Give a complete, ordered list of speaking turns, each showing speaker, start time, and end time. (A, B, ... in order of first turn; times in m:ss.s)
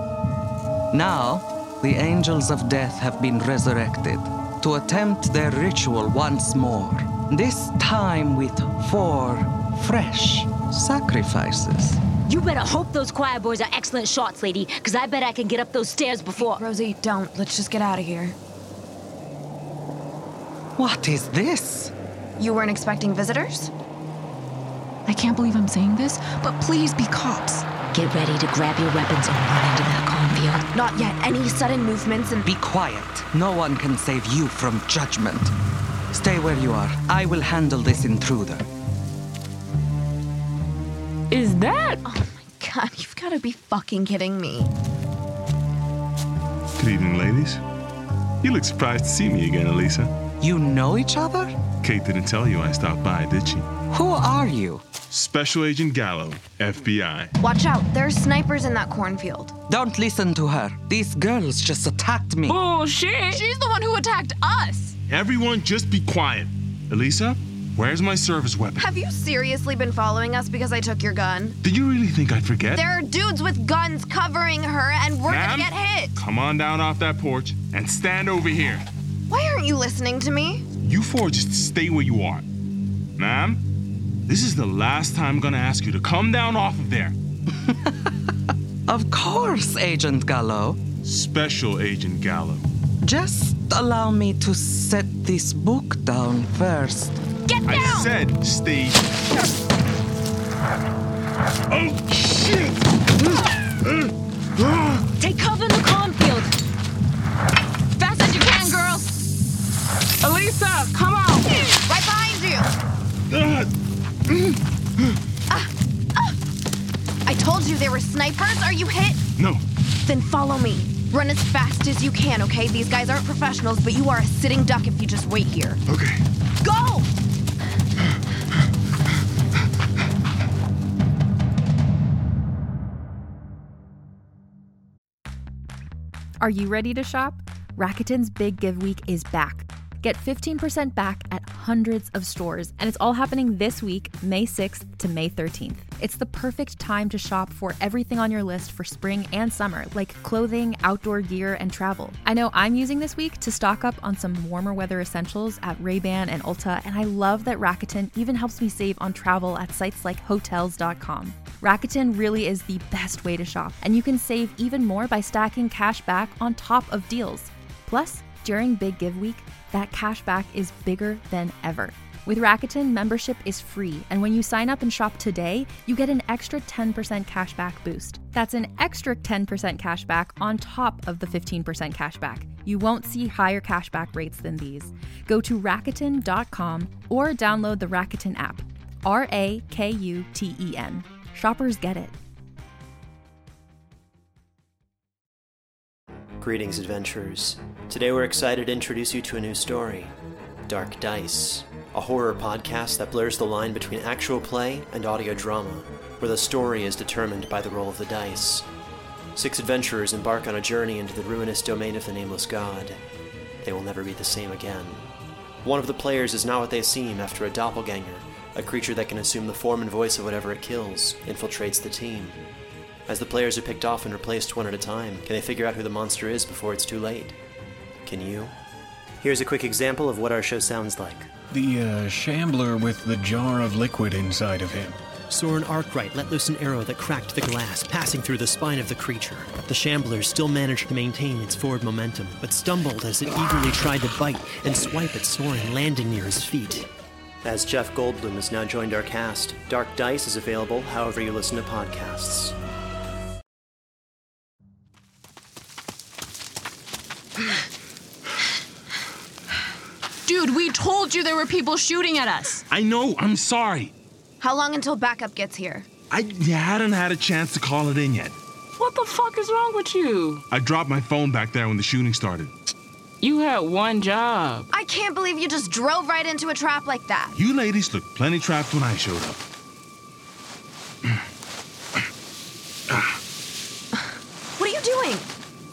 0:00.9-0:12.0 A
0:12.2-0:16.6 B
0:16.4-0:18.4 C
0:20.8-0:21.9 A
0:22.4-0:23.7 C
0:25.0-0:27.7 D
0:27.9-0:30.7 B
0:30.7-0:32.4 C
0:32.4-0:35.5 A
0:36.1-0:38.7 A
0:41.3-0:42.0 E
0:42.0-0:44.7 C
0:46.8-0:47.6 F
0:48.4-0:50.1 F
0:50.4-0:51.5 A
0:51.8-0:53.7 F
0:53.9-0:54.8 A
0:55.1-0:57.3 F
0:57.4-0:59.5 C
0:59.7-1:02.6 A
1:02.5-1:03.4 E
1:03.3-1:05.0 D
1:05.1-1:08.8 F
1:08.8-1:11.6 C
1:11.6-1:12.8 F
1:12.7-1:16.2 C
1:15.3-1:18.8 F
1:19.3-1:20.6 C
1:20.8-1:22.4 F
1:23.2-1:23.6 F
1:24.3-1:27.1 F
1:27.5-1:28.3 A
1:28.9-1:30.8 A
1:31.0-1:32.7 F
1:33.0-1:37.2 A
1:37.5-1:38.1 C
1:37.6-1:39.1 F
1:41.7-1:42.8 F
1:43.8-1:45.0 F
1:45.2-1:46.5 B
1:48.0-1:49.1 D
1:50.2-1:51.6 E
1:51.9-1:52.7 C
1:53.3-1:53.7 F
1:54.3-1:55.2 F
1:55.5-1:56.4 C
1:57.2-1:59.2 C
1:59.4-1:59.6 F
2:00.0-2:05.8 C
2:05.9-2:06.2 F
2:06.6-2:07.1 C
2:16.4-3:12.1 G
3:16.4-3:20.1 H
3:20.7-3:28.7 H
3:29.3-3:33.0 H
3:33.6-3:35.1 H
3:35.6-3:42.4 H
3:43.1-3:47.4 H
3:48.0-3:48.5 H
3:49.2-3:51.3 H
3:51.5-3:55.0 I
3:55.3-4:06.8 J
4:07.4-4:12.5 H
4:20.2-4:22.6 D
4:22.7-4:23.9 F
4:24.4-4:25.9 C
4:26.1-4:28.4 F
4:28.8-4:30.4 E
4:30.5-4:32.5 F
4:33.2-4:34.7 E
4:34.7-4:37.4 C
4:37.4-4:39.4 F
4:44.6-4:45.3 C